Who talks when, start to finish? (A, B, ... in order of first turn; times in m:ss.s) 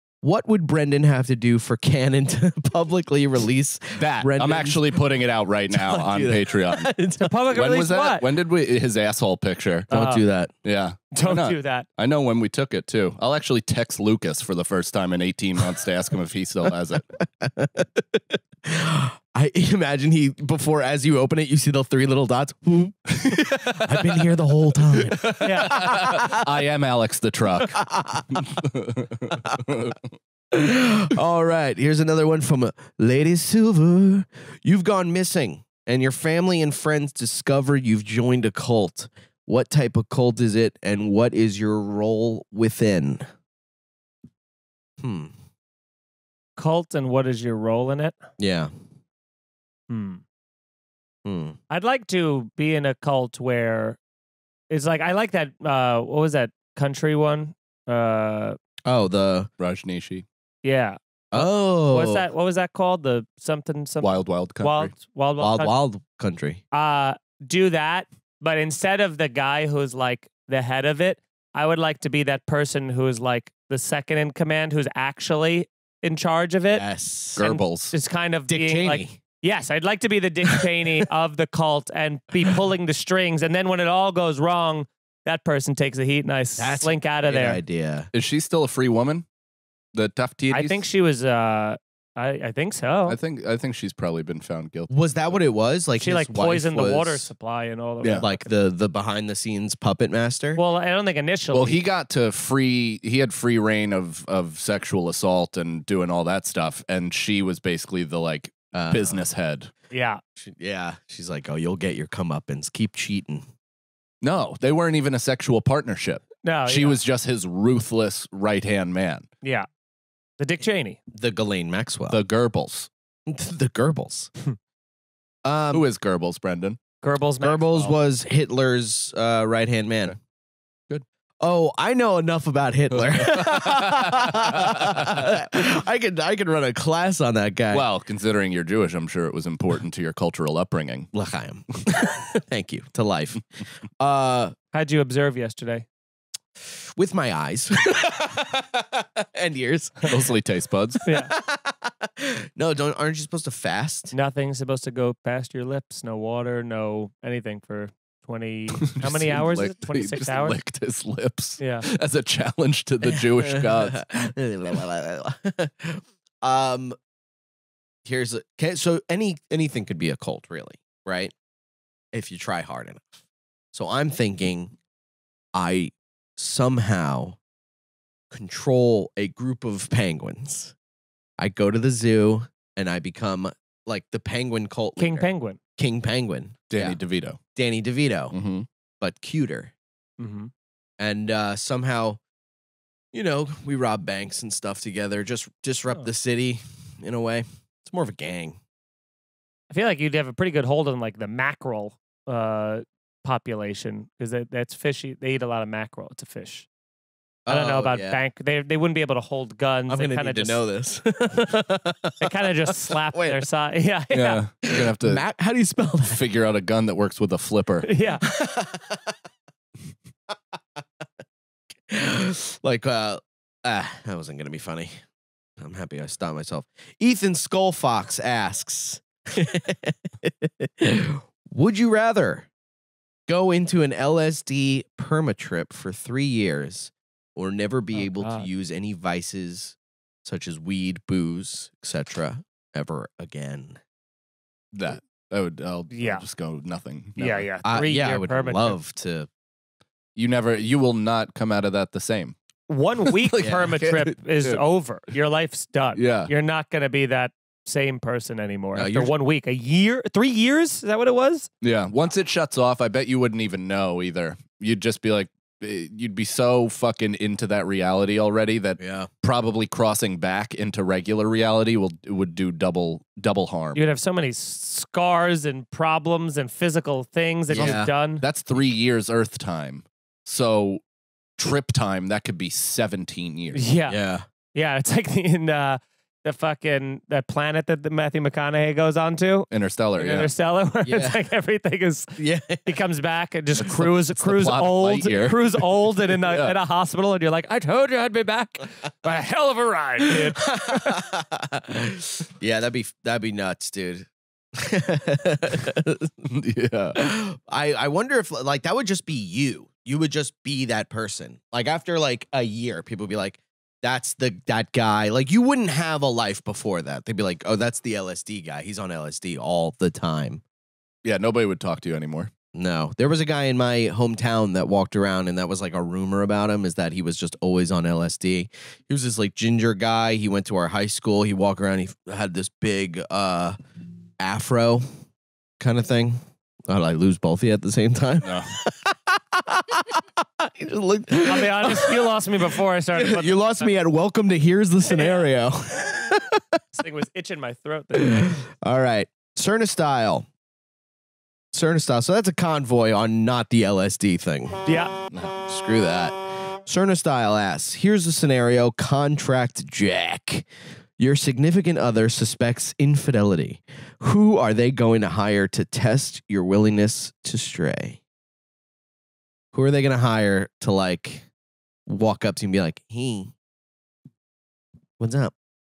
0:00.2-0:05.0 A
0:04.0-0:06.9 B
0:05.7-0:07.3 A
0:07.2-0:08.2 C
0:07.5-0:09.9 B
0:09.9-0:10.2 C
0:09.9-0:10.5 A
0:10.6-0:17.1 B
0:11.1-0:11.8 C
0:17.2-0:26.5 A
0:23.2-0:24.2 B
0:24.9-0:27.8 B
0:25.4-0:25.8 C
0:27.6-0:28.4 A
0:28.3-0:30.0 B
0:29.3-0:29.9 A
0:30.5-0:43.3 A
0:45.0-0:45.3 A
0:46.6-0:48.2 C
0:48.4-0:48.7 A
0:49.9-0:50.2 C
0:51.2-0:51.6 A
0:51.7-0:54.0 C
0:54.7-0:58.6 C
0:58.8-0:59.5 A
0:59.6-1:00.2 B
1:00.6-1:05.7 C
1:01.3-1:02.2 A
1:04.0-1:04.9 B
1:05.4-1:06.6 A
1:06.7-1:16.8 C
1:16.7-1:17.4 A
1:17.4-1:17.9 B
1:17.4-1:27.6 C
1:18.5-1:19.2 A
1:26.6-1:28.1 A
1:28.1-1:29.2 B
1:29.9-1:30.8 B
1:30.5-1:33.2 C
1:33.1-1:35.4 B
1:34.9-1:37.3 A
1:36.0-1:38.4 C
1:38.2-1:40.6 A
1:40.6-1:41.8 C
1:41.5-1:49.7 B
1:48.7-1:49.2 A
1:49.9-1:50.2 C
1:50.4-1:53.4 A
1:54.2-1:59.3 B
1:56.4-1:57.0 C
1:59.4-1:59.7 C
2:00.4-2:01.0 C
2:01.1-2:02.2 A
2:02.1-2:02.9 B
2:03.2-2:04.3 A
2:05.4-2:05.8 A
2:05.7-2:06.8 B
2:07.0-2:07.9 C
2:07.4-2:10.2 A
2:11.4-2:17.8 A
2:12.9-2:15.3 B
2:17.7-2:21.1 B
2:21.1-2:23.4 A
2:24.0-2:24.5 A
2:24.7-2:25.8 C
2:26.8-2:30.1 A
2:30.0-2:31.0 B
2:31.0-2:31.3 C
2:31.0-2:34.1 A
2:34.1-2:40.6 C
2:38.9-2:44.1 B
2:41.6-2:41.9 C
2:43.0-2:47.0 A
2:48.0-2:51.3 A
2:52.1-2:53.1 A
2:53.7-2:54.7 A
2:55.5-2:57.4 A
2:58.3-3:00.7 A
3:01.4-3:07.0 A
3:05.0-3:05.6 C
3:06.7-3:07.4 B
3:07.6-3:08.3 A
3:08.3-3:08.6 B
3:09.0-3:09.7 A
3:10.2-3:10.5 C
3:11.0-3:12.2 A
3:13.1-3:18.6 A
3:19.7-3:26.7 C
3:27.4-3:28.2 A
3:27.5-3:30.6 C
3:29.9-3:32.3 A
3:32.2-3:34.4 C
3:32.9-3:33.4 A
3:34.1-3:35.2 B
3:34.7-3:36.2 A
3:36.0-3:37.9 B
3:37.8-3:38.2 C
3:38.2-3:39.2 A
3:41.9-3:44.9 A
3:45.6-3:52.5 A
3:53.3-4:03.8 A
3:57.9-3:58.5 C
4:04.7-4:07.5 B
4:05.9-4:06.2 C
4:07.2-4:08.8 C
4:07.6-4:09.3 A
4:10.2-4:12.3 B
4:12.7-4:21.5 C
4:13.1-4:14.6 B
4:13.4-4:13.7 A
4:16.0-4:16.3 B
4:18.7-4:19.1 A
4:21.6-4:33.8 B
4:28.8-4:29.1 A
4:33.7-4:38.2 C
4:37.5-4:37.9 A
4:37.5-4:40.8 B
4:41.4-4:43.6 B
4:43.5-4:44.0 C
4:43.9-4:44.2 A
4:44.5-5:01.0 C
4:49.5-4:50.3 B
4:50.8-4:51.2 A
4:52.2-4:52.7 A
4:53.6-4:56.5 B
5:00.0-5:06.1 A
5:06.3-5:07.0 B
5:06.9-5:20.4 A
5:21.0-5:22.3 B
5:22.5-5:33.6 A
5:34.2-5:34.8 A
5:35.6-5:42.2 A
5:38.2-5:38.5 B
5:41.2-5:43.7 C
5:42.9-5:46.6 A
5:44.9-5:45.3 C
5:46.7-5:48.4 C
5:48.0-5:50.3 A
5:51.5-5:54.7 A
5:54.6-5:54.9 C
5:55.4-6:08.0 A
6:09.5-6:11.3 A
6:11.8-6:13.3 A
6:15.0-6:15.3 A